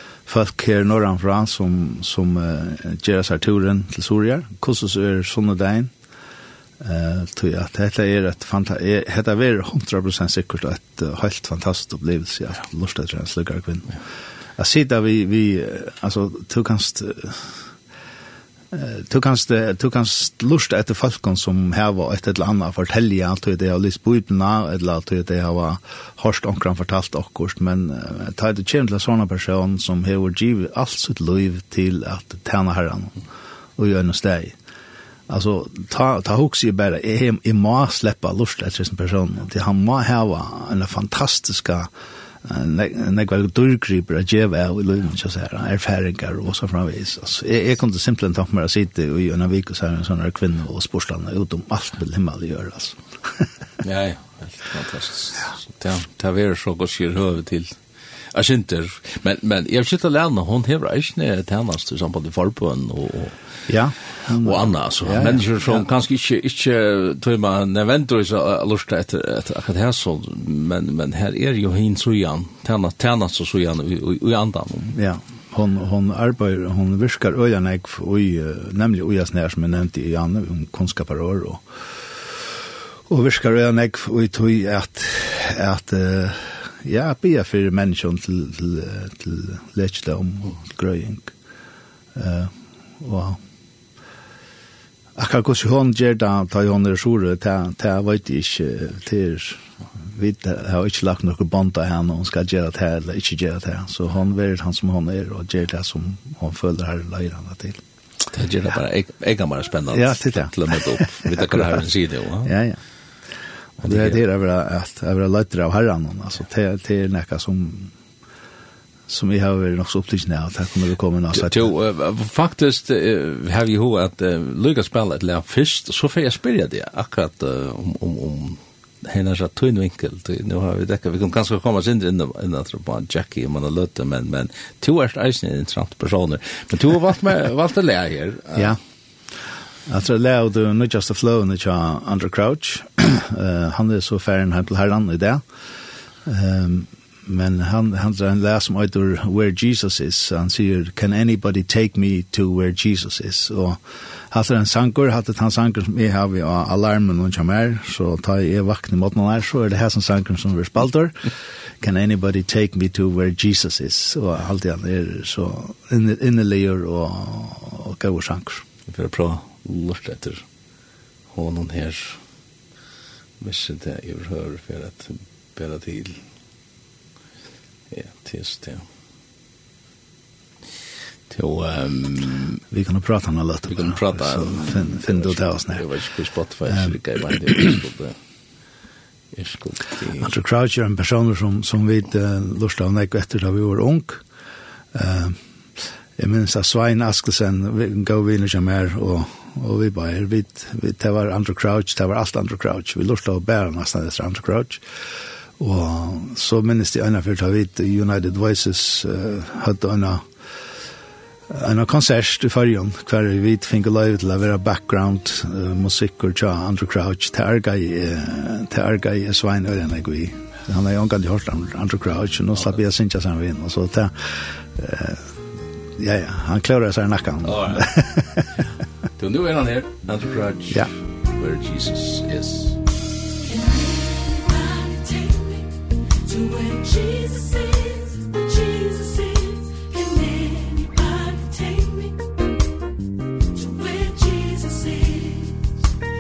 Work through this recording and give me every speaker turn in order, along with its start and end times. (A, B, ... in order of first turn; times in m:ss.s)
0:00.3-0:05.9 A
0:06.8-0:14.0 A
0:14.6-0:17.6 A
0:18.7-0:33.2 A
0:33.8-0:34.6 A
0:35.3-0:41.9 A
0:42.4-0:53.5 A
0:53.8-0:57.8 B
0:58.3-1:03.4 B
1:03.7-1:05.8 A
1:04.4-1:15.0 B
1:14.9-1:21.6 A
1:23.1-1:31.3 A
1:32.2-1:33.4 A
1:35.2-1:47.8 A
1:48.3-1:52.5 B
1:49.9-1:51.8 A
1:52.4-1:52.8 A
1:53.8-1:57.9 A
1:53.8-1:54.2 B
1:59.1-2:01.7 A
2:01.3-2:18.8 B
2:19.9-2:25.4 A
2:26.2-2:48.6 A
2:48.9-2:50.4 B
2:51.3-2:52.2 B
2:53.4-2:56.2 B
2:57.9-2:58.9 B
3:01.3-3:02.6 B
3:02.7-3:05.9 A
3:03.7-3:08.2 B
3:06.7-3:07.0 A
3:09.3-3:10.4 B
3:10.2-3:14.2 A
3:14.9-3:15.4 A
3:16.2-3:24.8 A
3:25.6-3:30.3 A
3:31.5-3:45.3 A
3:46.0-3:48.5 A
3:47.4-3:47.9 B
3:49.2-3:52.8 B
3:53.4-4:02.3 C
4:03.5-4:05.7 C